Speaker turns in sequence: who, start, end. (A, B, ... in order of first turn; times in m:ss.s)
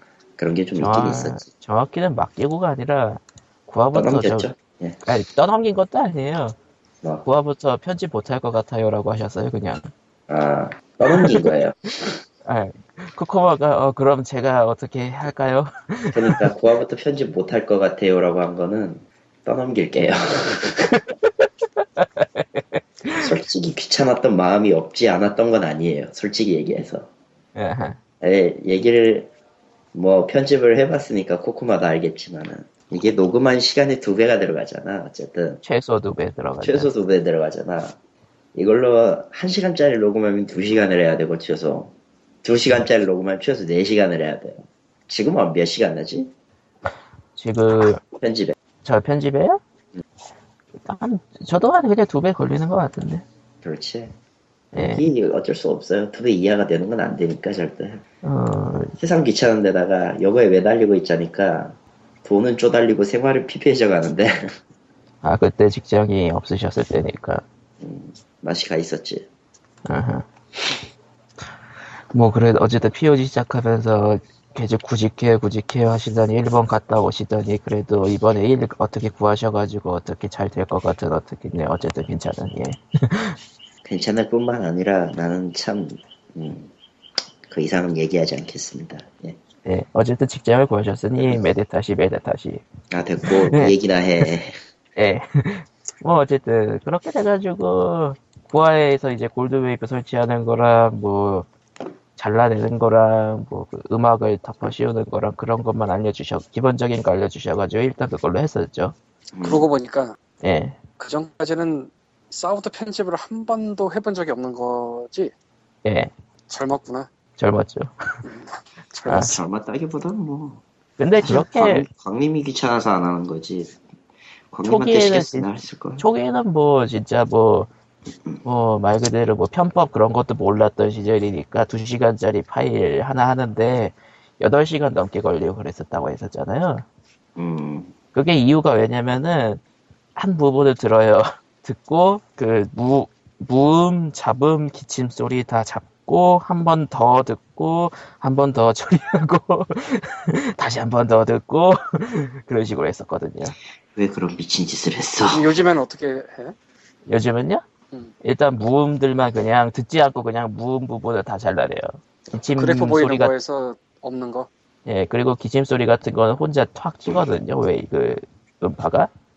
0:00.4-0:01.4 A
0:00.8-0:04.5 B
0:03.9-0:05.0 A
0:05.0-0:06.6 B
0:07.2-0:09.9 B
0:10.3-0:12.1 A
0:12.4-0:16.5 B
0:16.1-0:21.0 A
0:21.8-0:23.3 B
0:23.2-0:27.1 A
0:27.5-0:28.0 B
0:28.2-0:29.3 A
0:29.9-0:35.6 A
0:35.6-0:36.9 B
0:36.6-0:38.0 A
0:38.5-0:41.9 A
0:42.4-0:46.3 A
0:47.4-0:48.0 B
0:48.2-0:48.6 A
0:48.8-0:49.6 B
0:50.8-0:53.2 B
0:53.6-0:54.1 A
0:54.7-0:55.0 B
0:54.8-0:58.0 A
0:58.2-0:59.0 B
0:59.0-1:04.6 A
1:05.2-1:07.4 B
1:07.8-1:09.3 A
1:09.8-1:10.2 B
1:12.1-1:23.4 B
1:23.8-1:26.7 A
1:27.5-1:29.4 A
1:29.6-1:32.6 B
1:32.9-1:34.5 A
1:33.2-1:33.7 B
1:35.0-1:41.5 B
1:42.2-1:48.9 B
1:49.3-1:49.7 A
1:49.4-1:50.2 C
1:50.4-1:50.8 B
1:51.0-1:55.3 C
1:55.8-1:56.1 B
1:56.5-1:57.1 C
1:57.4-1:58.2 B
1:58.2-1:59.4 C
1:59.1-1:59.3 B
1:59.2-2:00.6 A
2:01.0-2:01.9 B
2:01.2-2:03.8 A
2:04.5-2:06.0 A
2:04.6-2:07.7 B
2:08.4-2:16.8 B
2:17.4-2:17.9 A
2:18.1-2:19.6 B
2:20.2-2:33.6 B
2:33.9-2:35.5 A
2:35.3-2:36.6 C
2:37.1-2:37.6 B
2:38.2-2:43.3 B
2:42.6-2:44.5 C
2:44.8-2:49.1 B